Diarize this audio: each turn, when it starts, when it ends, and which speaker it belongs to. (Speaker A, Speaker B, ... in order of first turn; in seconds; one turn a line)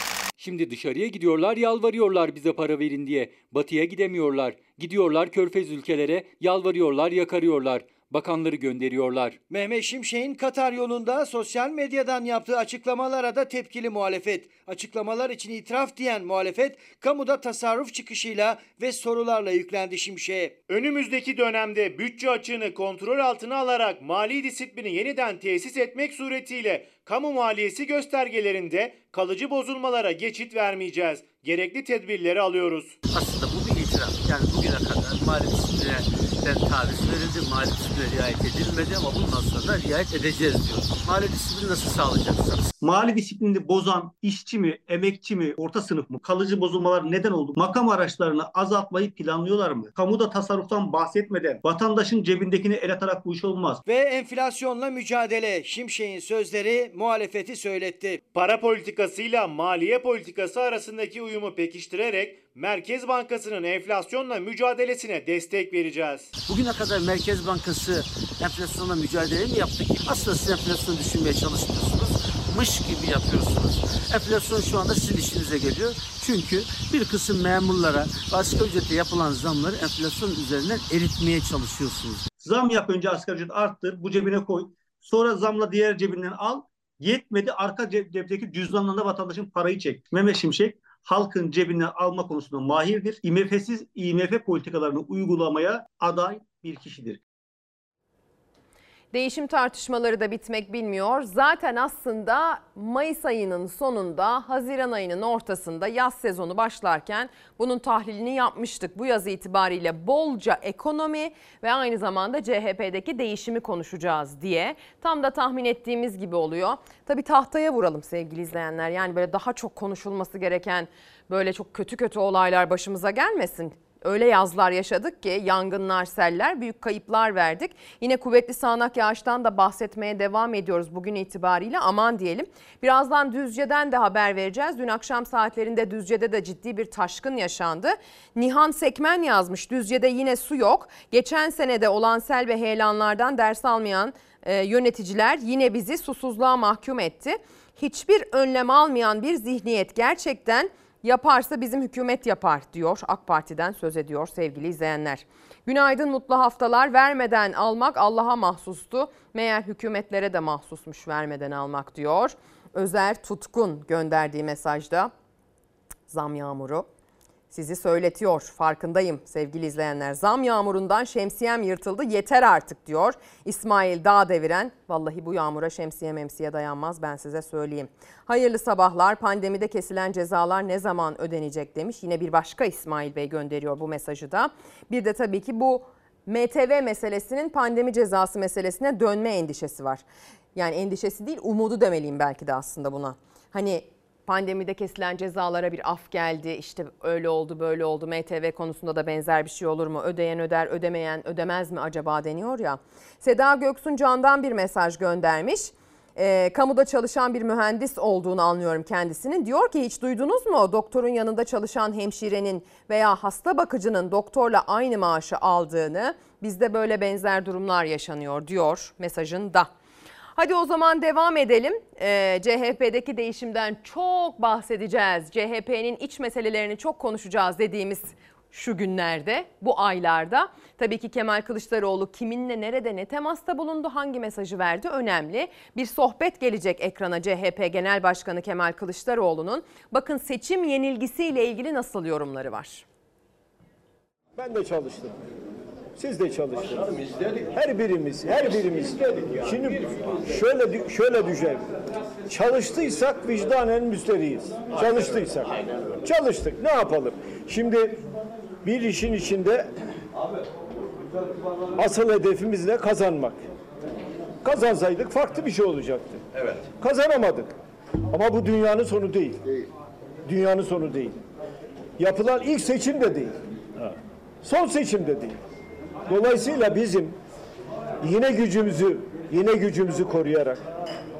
Speaker A: 0.4-9.4
Speaker B: 9.5-20.6
Speaker C: 20.7-33.0
Speaker D: 33.1-42.7
Speaker E: 42.8-53.8
Speaker B: 53.9-58.2
Speaker C: 58.3-66.3
Speaker D: 66.5-82.3
Speaker E: 82.4-97.2
Speaker F: 99.1-165.1
Speaker F: 166.1-166.9
Speaker F: 167.5-190.0
Speaker F: 190.5-219.7
Speaker F: 220.3-242.8
Speaker G: 244.3-245.2
Speaker G: 245.9-251.7
Speaker G: 252.3-258.0
Speaker G: 258.6-259.7
Speaker G: 261.8-263.4
Speaker G: 264.4-267.5
Speaker G: 268.1-269.4
Speaker G: 270.2-271.2
Speaker G: 272.0-275.4
Speaker G: 276.1-277.2
Speaker G: 278.0-280.6